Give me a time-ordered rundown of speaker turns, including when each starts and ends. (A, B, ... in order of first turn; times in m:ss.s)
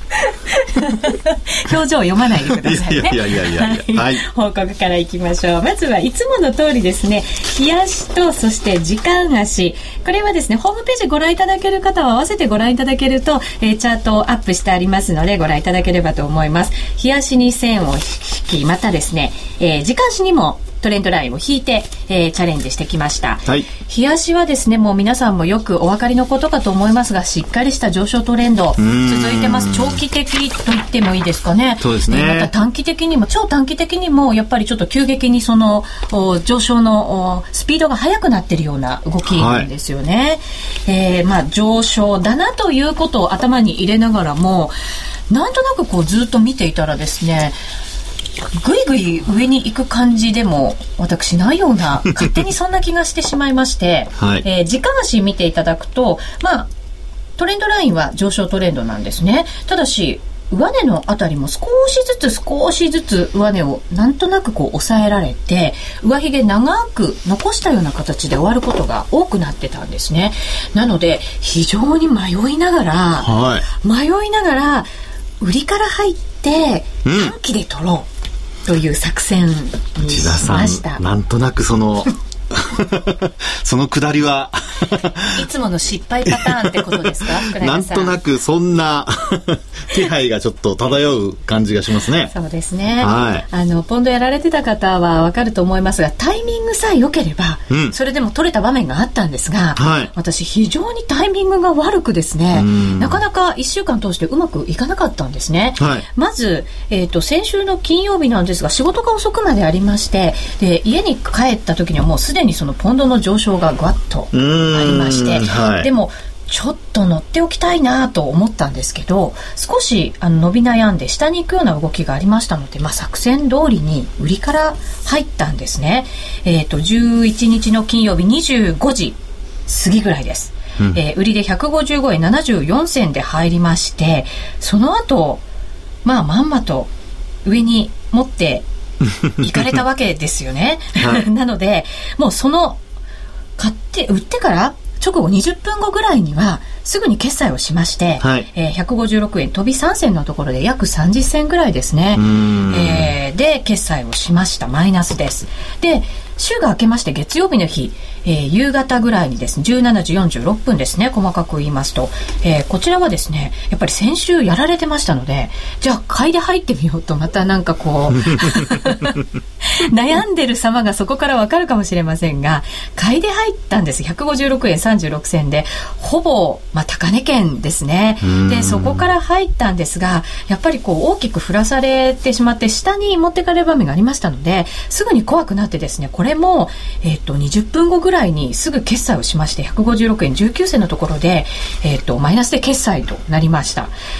0:00.2-0:44.7 A
0:02.5-0:04.2 B
0:28.8-0:30.0 B
0:31.8-0:32.5 B
0:39.3-0:39.7 B
0:45.3-0:47.6 A
0:48.5-0:56.7 A
0:54.2-0:54.4 B
0:57.4-1:14.9 A
1:13.2-1:13.7 B
1:15.4-1:18.1 A
1:17.0-1:17.3 B
1:18.7-1:21.0 A
1:20.1-1:25.4 B
1:25.3-1:28.2 A
1:26.8-1:32.3 B
1:32.3-2:15.4 A
1:33.0-1:33.5 B
1:39.8-1:40.1 B
1:42.5-1:43.2 B
1:45.8-1:46.0 B
1:54.3-1:55.9 B
2:16.0-2:16.9 A
2:17.4-2:18.6 A
2:19.4-2:22.8 A
2:21.0-2:21.2 B
2:23.6-3:13.9 A
2:28.2-2:28.5 B
2:32.2-2:33.1 B
2:58.2-2:59.1 B